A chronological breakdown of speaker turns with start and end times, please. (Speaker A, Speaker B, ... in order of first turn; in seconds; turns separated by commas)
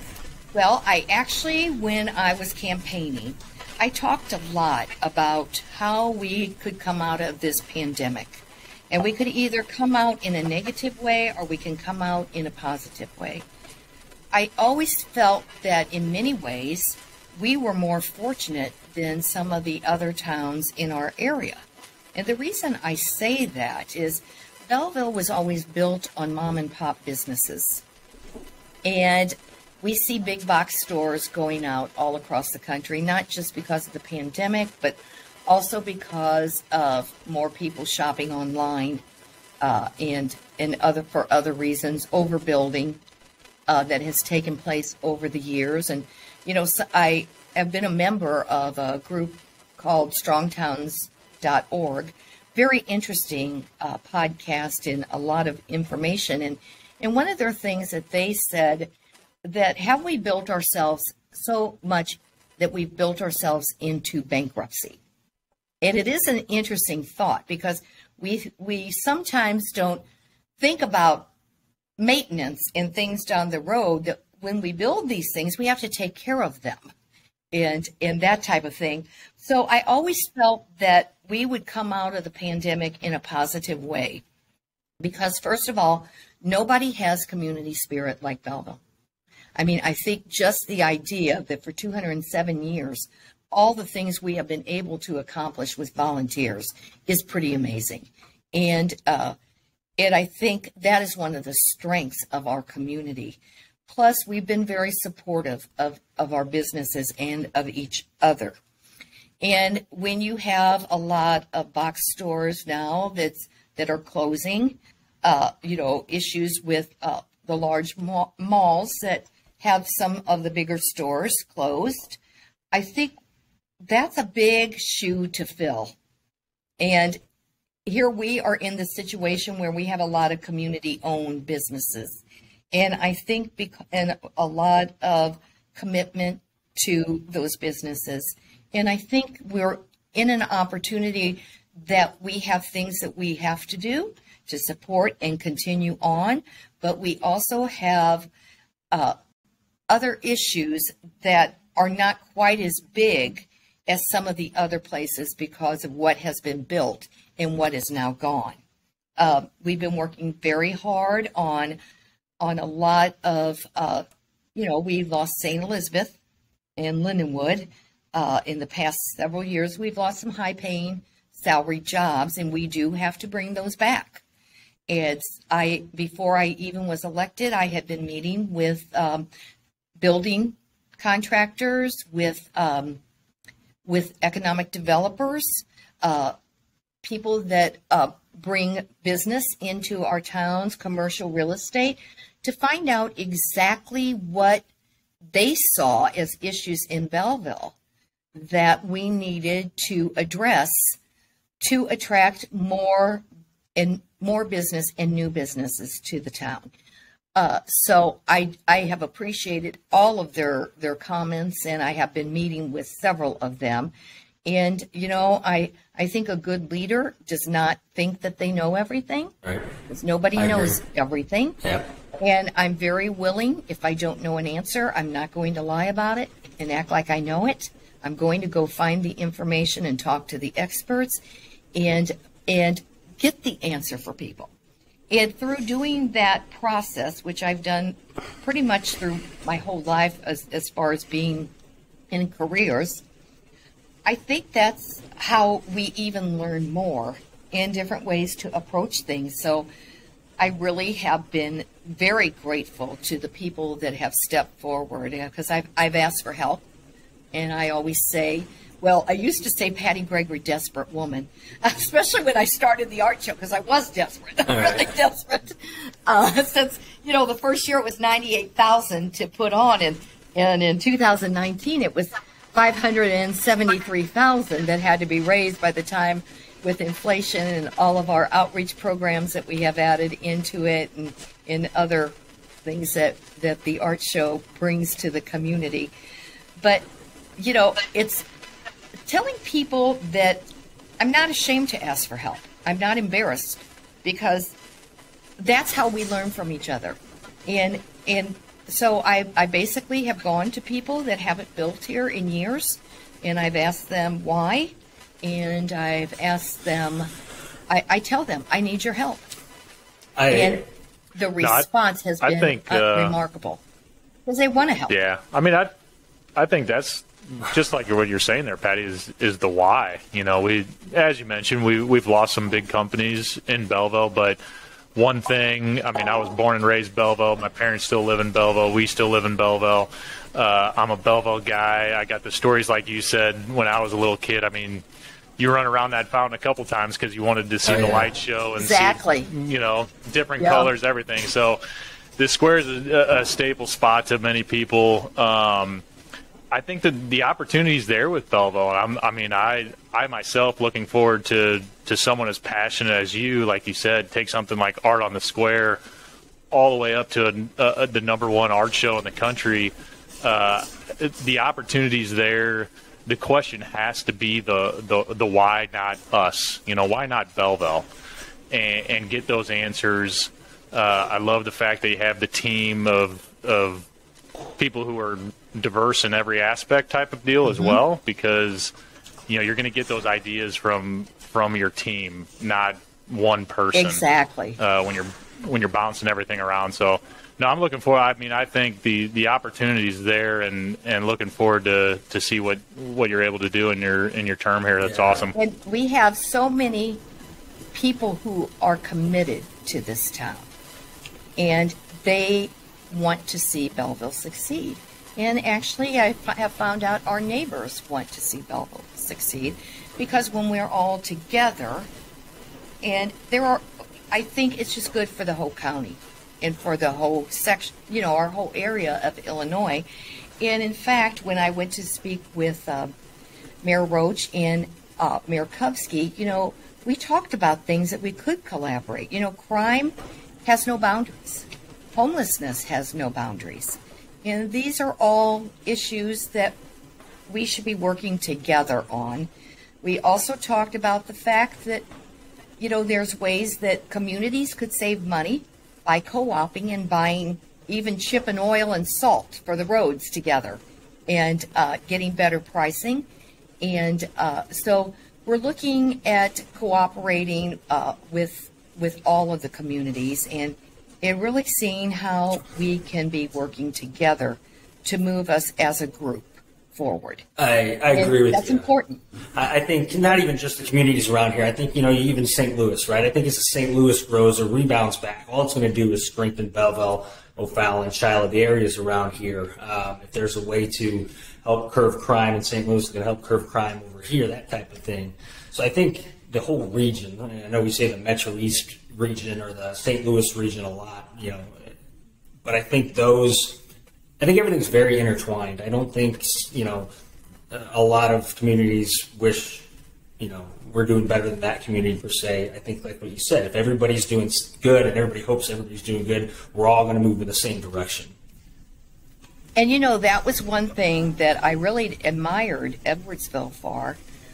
Speaker A: 0.5-13.4, Speaker A: 14.3-21.6, Speaker A: 22.1-27.8, Speaker A: 28.8-39.0, Speaker A: 39.6-43.0, Speaker A: 43.7-58.9, Speaker A: 59.4-65.0, Speaker A: 65.8-70.0, Speaker A: 70.6-71.3, Speaker A: 72.0-76.9, Speaker A: 77.5-84.2, Speaker A: 85.0-88.8, Speaker A: 89.5-99.3, Speaker A: 100.0-108.5, Speaker A: 109.4-122.2, Speaker A: 122.7-123.2, Speaker A: 123.8-125.9, Speaker A: 126.8-127.2, Speaker A: 127.8-148.3, Speaker A: 148.9-149.2, Speaker A: 149.9-158.6, Speaker A: 159.2-161.8, Speaker A: 162.4-166.2, Speaker A: 166.8-174.2, Speaker A: 174.9-179.3, Speaker A: 180.0-183.0, Speaker A: 183.8-186.3, Speaker A: 187.0-194.6, Speaker A: 195.3-197.7, Speaker A: 198.3-201.0, Speaker A: 201.6-203.2, Speaker A: 203.8-206.7, Speaker A: 207.3-213.9, Speaker A: 214.4-219.3, Speaker A: 219.9-221.6, Speaker B: 220.3-220.8, Speaker B: 221.6-221.9, Speaker A: 222.2-231.2, Speaker A: 231.7-234.5, Speaker A: 235.1-241.5, Speaker A: 242.1-243.0, Speaker A: 244.1-249.7, Speaker A: 250.4-256.6, Speaker A: 257.3-285.9, Speaker B: 264.5-264.9, Speaker A: 286.6-286.8, Speaker A: 287.4-288.2, Speaker A: 289.1-290.5, Speaker A: 291.0-294.5, Speaker A: 295.4-307.1, Speaker A: 307.7-309.3, Speaker B: 310.2-310.6, Speaker A: 310.3-310.6, Speaker A: 311.1-313.6, Speaker C: 311.4-311.6, Speaker C: 312.2-313.1, Speaker A: 314.2-314.9, Speaker C: 314.9-315.7, Speaker C: 316.4-324.4, Speaker C: 324.9-334.8, Speaker C: 335.4-341.6, Speaker B: 337.6-338.1, Speaker A: 338.6-339.3, Speaker A: 340.4-340.7, Speaker C: 342.2-345.8, Speaker C: 346.5-355.8, Speaker C: 356.5-367.9, Speaker C: 368.5-373.9, Speaker C: 374.6-378.7, Speaker A: 377.5-377.8, Speaker C: 379.3-384.0, Speaker A: 383.7-384.6, Speaker C: 384.6-395.3, Speaker B: 394.8-395.3, Speaker A: 395.3-397.0, Speaker A: 397.7-400.5, Speaker A: 401.4-411.9, Speaker A: 412.8-419.8, Speaker A: 420.4-422.9, Speaker A: 423.6-429.9, Speaker A: 430.4-436.6, Speaker A: 437.3-439.3, Speaker A: 439.8-441.9, Speaker A: 442.6-453.1, Speaker A: 453.6-467.2, Speaker B: 467.4-468.6, Speaker A: 467.9-469.0, Speaker B: 469.3-491.7, Speaker B: 492.4-493.6, Speaker B: 494.2-496.9, Speaker B: 497.5-499.7, Speaker B: 500.2-508.1, Speaker A: 509.6-514.0